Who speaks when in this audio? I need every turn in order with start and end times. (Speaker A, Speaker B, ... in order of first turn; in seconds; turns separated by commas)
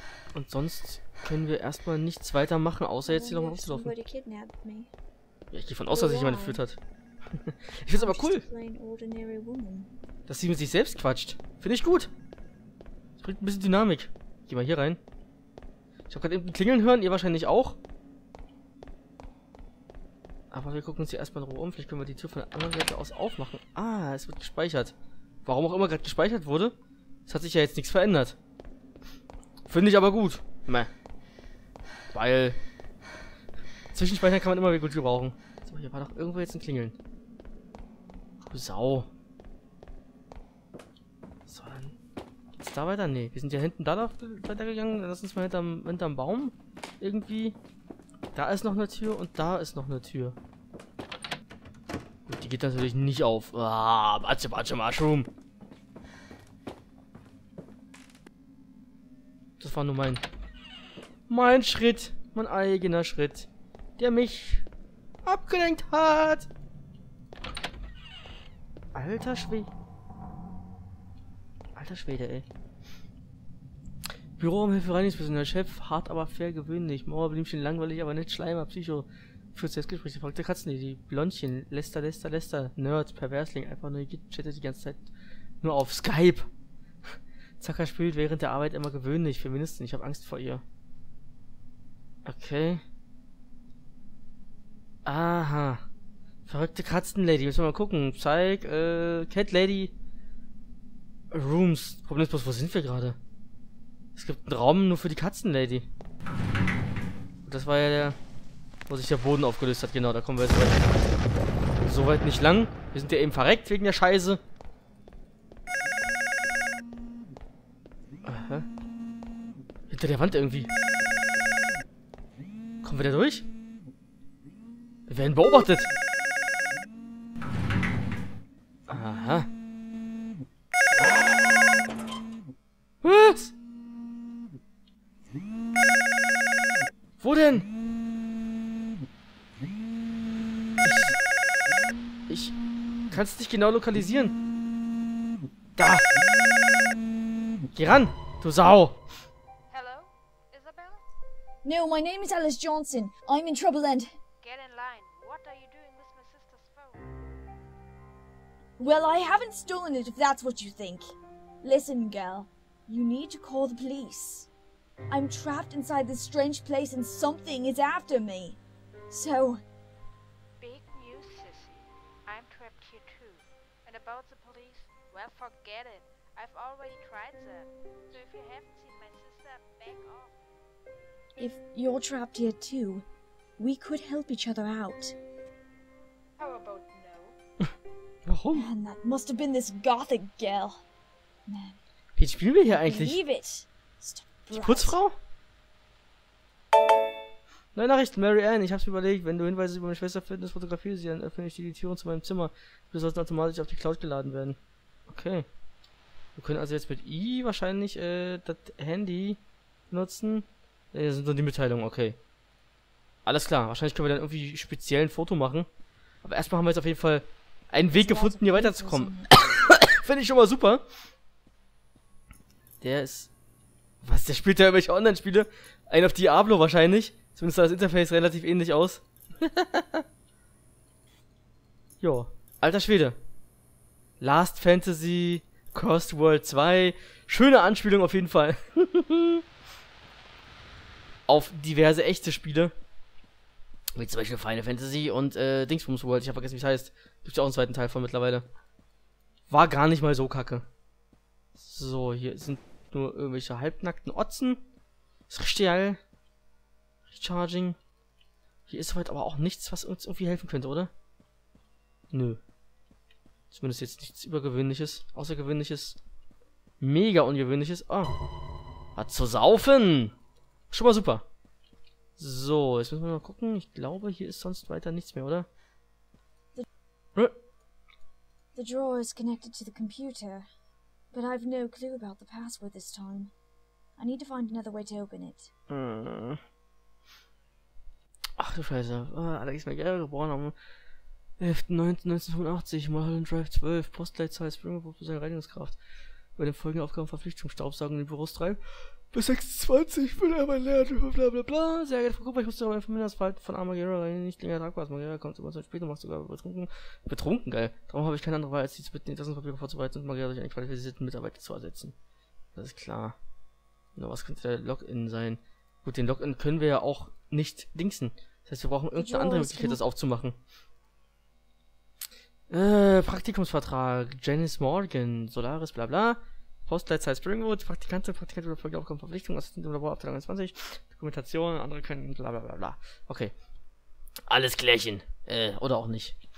Speaker A: 0.3-3.9, Speaker B: 3.1-4.9, Speaker A: 5.5-6.8, Speaker B: 5.9-6.6, Speaker A: 7.3-8.4, Speaker B: 7.9-9.9, Speaker A: 10.3-12.1, Speaker A: 13.2-15.0, Speaker A: 16.1-17.8, Speaker A: 20.5-26.8, Speaker A: 27.3-28.4, Speaker A: 29.7-30.9, Speaker A: 32.1-32.6, Speaker A: 33.9-37.0, Speaker A: 38.5-39.1, Speaker A: 41.5-42.0, Speaker A: 42.6-47.6, Speaker A: 48.3-50.4, Speaker A: 52.3-55.3, Speaker A: 59.6-60.2, Speaker A: 61.3-64.7, Speaker A: 65.2-66.5, Speaker A: 68.9-69.7, Speaker A: 71.8-72.5, Speaker A: 74.4-85.1, Speaker A: 85.6-86.5, Speaker A: 87.1-90.6, Speaker A: 92.2-92.8, Speaker A: 95.0-95.8, Speaker A: 96.5-99.9, Speaker A: 101.3-103.2, Speaker A: 104.2-105.9, Speaker A: 107.5-108.2, Speaker A: 108.9-110.8, Speaker A: 111.8-114.4, Speaker A: 118.2-118.7, Speaker A: 119.9-120.7, Speaker A: 122.8-123.5, Speaker A: 125.1-125.9, Speaker A: 128.9-129.5, Speaker A: 133.0-133.5, Speaker A: 137.2-137.7, Speaker A: 140.8-141.2, Speaker A: 142.3-142.6, Speaker A: 143.1-144.4, Speaker A: 145.8-146.0, Speaker A: 147.7-149.0, Speaker C: 149.7-151.0, Speaker B: 151.6-154.1, Speaker C: 154.4-157.1, Speaker B: 158.8-164.5, Speaker B: 165.1-169.6, Speaker C: 170.6-180.4, Speaker B: 181.4-183.1, Speaker B: 183.6-185.2, Speaker C: 186.4-187.3, Speaker A: 188.3-188.7, Speaker B: 188.5-190.8, Speaker B: 191.5-191.8, Speaker A: 192.2-193.2, Speaker B: 192.8-195.0, Speaker A: 194.5-195.2, Speaker A: 197.8-205.5, Speaker A: 206.4-212.2, Speaker A: 213.3-215.7, Speaker A: 216.2-220.8, Speaker B: 217.9-219.3, Speaker A: 222.8-223.3, Speaker A: 224.0-230.0, Speaker A: 232.0-233.2, Speaker A: 234.2-239.4, Speaker A: 241.3-242.7, Speaker A: 243.9-248.5, Speaker A: 249.5-250.7, Speaker A: 251.6-254.6, Speaker A: 255.3-256.0, Speaker A: 257.1-257.8, Speaker A: 258.7-260.9, Speaker A: 262.1-262.4, Speaker A: 263.5-266.0, Speaker A: 266.8-268.1, Speaker A: 269.0-270.1, Speaker A: 270.7-271.2, Speaker A: 272.2-275.5, Speaker B: 278.5-280.5, Speaker B: 281.1-283.3, Speaker B: 284.0-285.5, Speaker A: 285.7-286.4, Speaker A: 288.4-290.6, Speaker A: 291.4-295.8, Speaker A: 296.4-298.6, Speaker A: 299.1-311.9, Speaker A: 312.6-313.2, Speaker A: 314.0-320.4, Speaker B: 318.9-319.8, Speaker A: 322.5-333.3, Speaker A: 334.3-336.2